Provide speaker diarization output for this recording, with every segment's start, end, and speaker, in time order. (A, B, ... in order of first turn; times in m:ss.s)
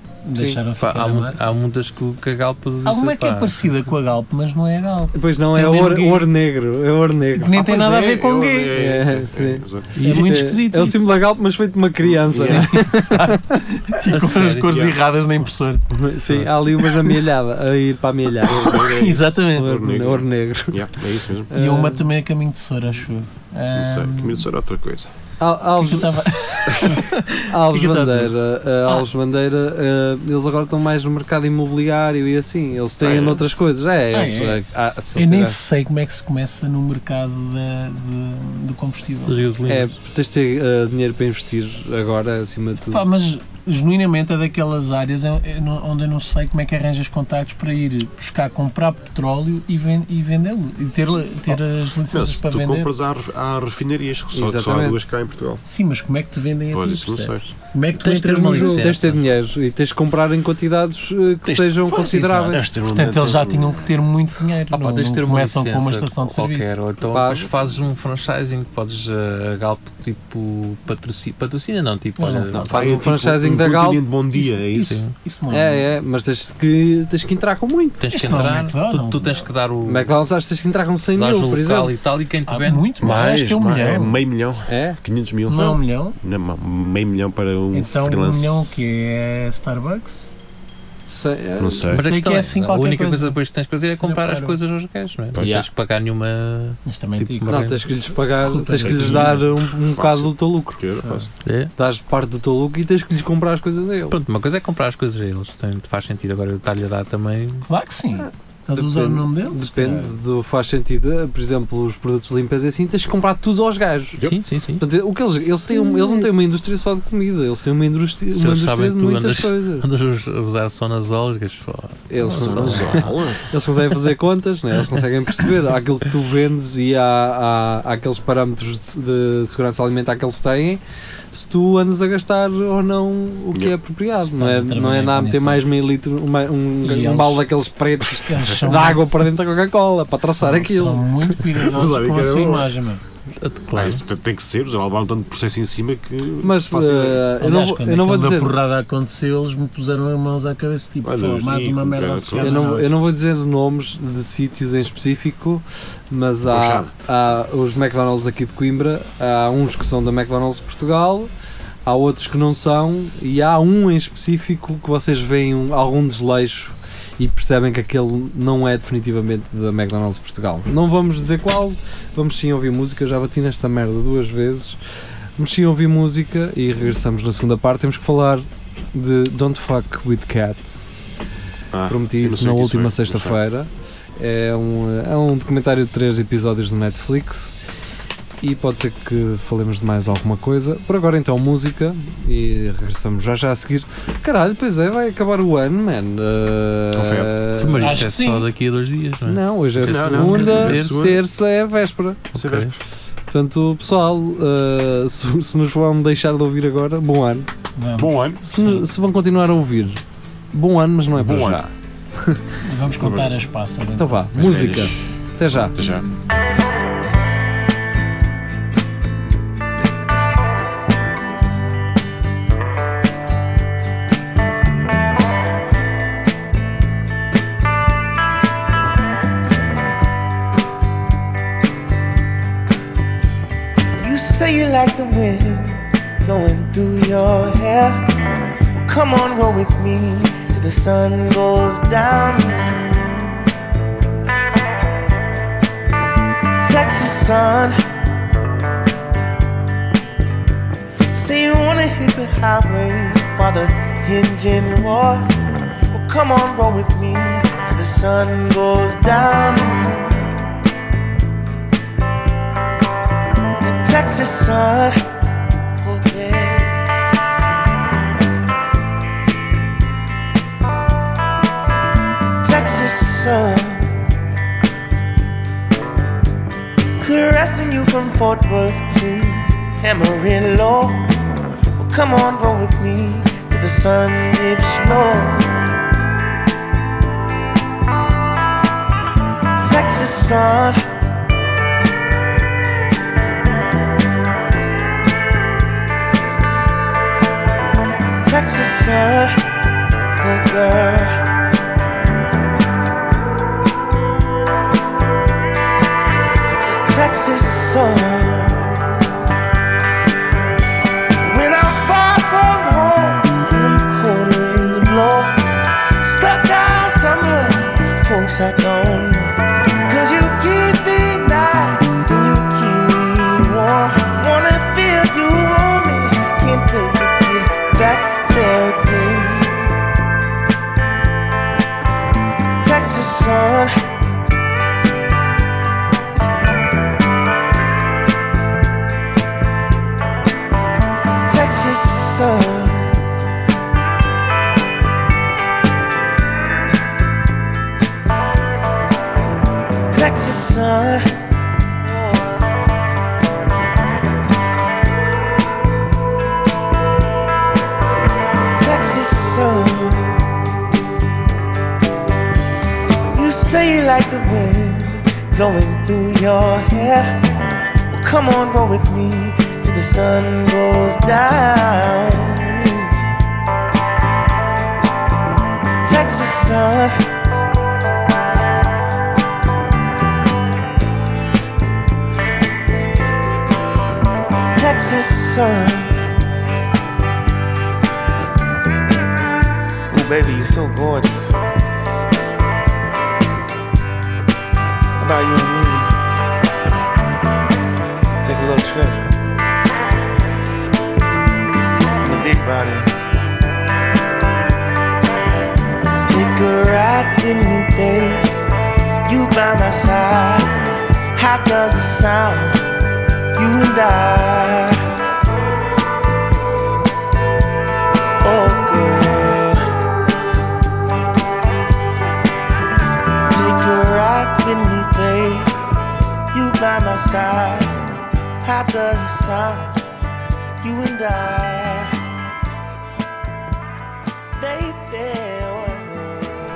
0:00.2-0:01.4 A
0:00.3-0:00.6 B
0:00.8-0:03.9 C
0:02.8-0:06.3 A
0:05.1-0:07.6 B
0:07.4-0:08.8 A
0:07.6-0:09.9 D
0:08.7-0:13.6 B
0:10.0-0:10.4 C
0:10.0-0:11.1 A
0:12.0-0:12.7 D
0:12.3-0:12.7 C
0:12.4-0:15.9 A
0:14.0-0:14.9 C
0:14.7-0:15.0 D
0:15.9-0:18.8 B
0:16.7-0:17.2 A
0:18.4-0:21.5 D
0:18.4-0:19.8 A
0:19.6-0:20.9 B
0:21.5-0:22.1 B
0:21.5-0:24.5 A
0:23.7-0:25.1 D
0:25.4-0:26.2 B
0:25.8-0:28.3 A
0:27.5-0:35.6 B
0:33.0-0:33.4 D
0:34.1-0:39.4 A
0:39.3-0:39.9 C
0:39.7-0:43.1 B
0:42.9-0:53.0 A
0:52.1-0:55.6 D
0:54.3-0:55.0 B
0:55.6-0:59.0 A
0:56.7-0:57.5 D
0:58.0-0:59.3 C
0:58.5-1:02.6 B
1:01.4-1:06.8 A
1:02.5-1:03.9 D
1:04.7-1:13.0 C
1:07.0-1:07.8 D
1:07.1-1:07.5 B
1:12.2-1:12.7 A
1:12.5-1:14.0 B
1:12.7-1:15.0 D
1:14.3-1:15.9 A
1:14.8-1:15.1 C
1:15.5-1:18.4 B
1:18.0-1:20.1 C
1:18.1-1:19.5 A
1:19.9-1:21.9 B
1:21.2-1:22.9 C
1:22.5-1:24.2 A
1:23.0-1:28.8 D
1:24.7-1:25.0 B
1:25.5-1:26.2 A
1:27.7-1:30.4 A
1:31.1-1:31.9 B
1:31.6-1:32.0 D
1:31.9-1:33.4 A
1:31.9-1:37.8 C
1:34.0-1:34.6 A
1:35.4-1:35.6 D
1:35.4-1:35.7 B
1:36.9-1:37.8 A
1:37.5-1:40.8 B
1:38.4-1:39.4 A
1:38.8-1:41.3 D
1:41.0-1:41.3 A
1:41.4-1:41.7 C
1:41.8-1:44.2 B
1:44.1-1:47.7 C
1:47.7-1:50.2 A
1:48.7-1:54.2 B
1:54.2-1:54.8 C
1:54.8-1:59.8 B
1:58.3-2:03.1 C
2:02.1-2:10.8 B
2:02.4-2:03.5 D
2:11.3-2:21.0 B
2:14.2-2:15.7 A
2:16.8-2:17.5 A
2:18.0-2:19.1 A
2:20.2-2:23.0 A
2:21.5-2:22.7 D
2:23.4-2:24.0 C
2:23.7-2:27.3 D
2:26.4-2:28.5 B
2:27.4-2:32.9 A
2:31.0-2:32.6 D
2:32.4-2:41.3 B
2:36.4-2:36.9 D
2:41.9-2:54.8 B
2:55.4-3:01.1 B
3:01.7-3:03.4 D
3:01.9-3:07.5 B
3:08.4-3:18.0 B
3:16.9-3:17.3 D
3:17.6-3:21.0 C
3:17.8-3:18.5 A
3:19.3-3:22.2 B
3:19.8-3:21.2 D
3:22.4-3:22.8 D
3:22.4-3:22.7 C
3:23.3-3:27.5 B
3:27.8-3:28.8 A
3:28.0-3:28.4 D
3:28.4-3:30.0 B
3:30.5-3:32.4 B
3:31.1-3:31.6 D
3:32.6-3:34.8 A
3:33.0-3:33.4 D
3:34.0-3:35.8 B
3:34.3-3:35.0 D
3:35.6-3:36.1 D
3:54.0-3:58.1 E
3:58.8-4:03.4 E
4:06.6-4:07.8 E
4:11.1-4:15.4 E
4:15.9-4:20.4 E
4:23.6-4:25.0 E
4:25.8-4:26.8 E
4:32.4-4:34.1 E
4:37.0-4:41.2 E
4:41.8-4:45.6 E
4:49.6-4:50.8 E
4:58.2-4:59.4 E
5:00.2-5:01.2 E
5:06.7-5:09.1 E
5:11.2-5:15.4 E
5:16.0-5:29.7 E
5:32.6-5:33.7 E
5:41.3-5:43.0 E
5:49.9-5:51.2 E
5:51.8-5:52.3 E
5:58.6-6:00.3 E
6:03.1-6:07.2 E
6:07.9-6:13.0 E
6:15.8-6:17.1 E
6:24.6-6:26.0 E
6:29.9-6:31.4 E
6:35.0-6:35.9 E
6:38.2-6:39.2 E
6:42.0-6:42.9 E
6:46.0-6:48.3 E
6:49.0-6:50.5 E
6:51.2-6:52.6 E
6:53.4-6:54.9 E
6:58.2-6:59.6 E
7:03.3-7:05.6 E
7:06.3-7:07.9 E
7:08.4-7:09.8 E
7:10.6-7:11.9 E
7:14.4-7:16.3 E